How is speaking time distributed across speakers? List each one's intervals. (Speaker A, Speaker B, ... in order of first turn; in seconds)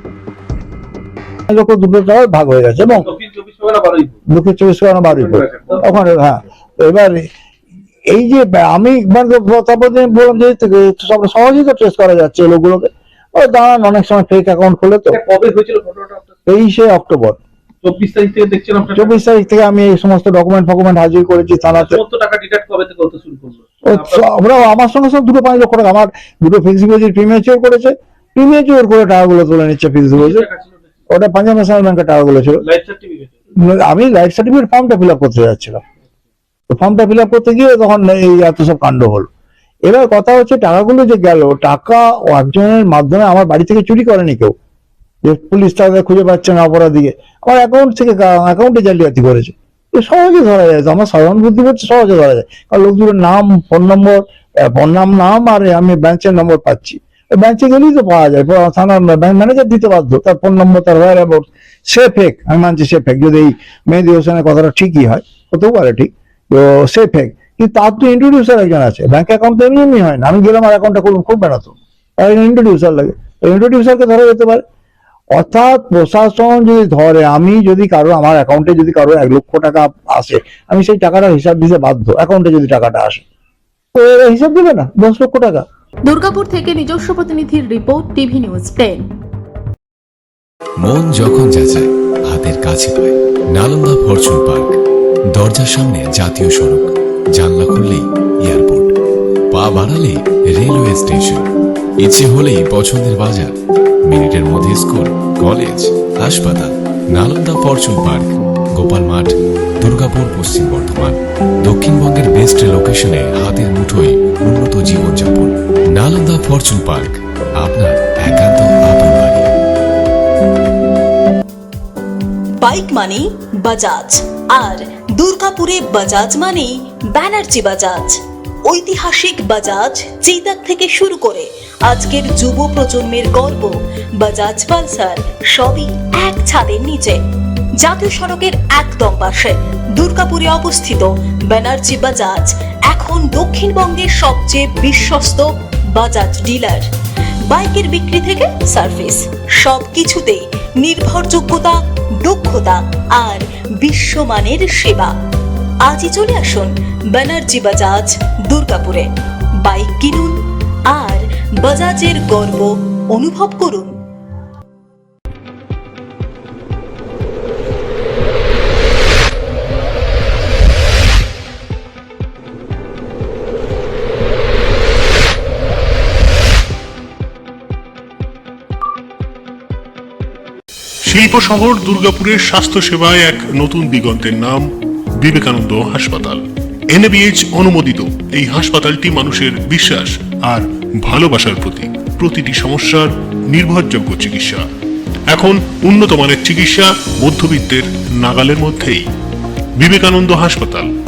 Speaker A: 1.5-3.1, 4.3-7.2, 8.1-15.2, 16.5-17.4, 18.9-22.0, 23.9-30.5, 31.1-32.6, 33.7-35.8, 36.7-39.3, 39.9-44.5, 45.2-74.6, 75.3-83.2, 83.9-85.7
Speaker B: 2.9-4.1, 5.0-5.9, 15.1-16.3, 17.8-19.2, 21.7-24.2, 30.1-30.9, 32.6-33.3
Speaker C: 86.1-89.0
Speaker D: 90.8-94.7, 95.3-98.9, 99.5-101.5, 102.0-103.5, 104.0-119.5
Speaker E: 122.6-137.2, 137.8-146.9, 147.5-155.1, 155.8-160.3, 160.9-163.9
Speaker F: 181.1-184.7, 185.2-194.6, 195.3-199.0, 199.8-200.9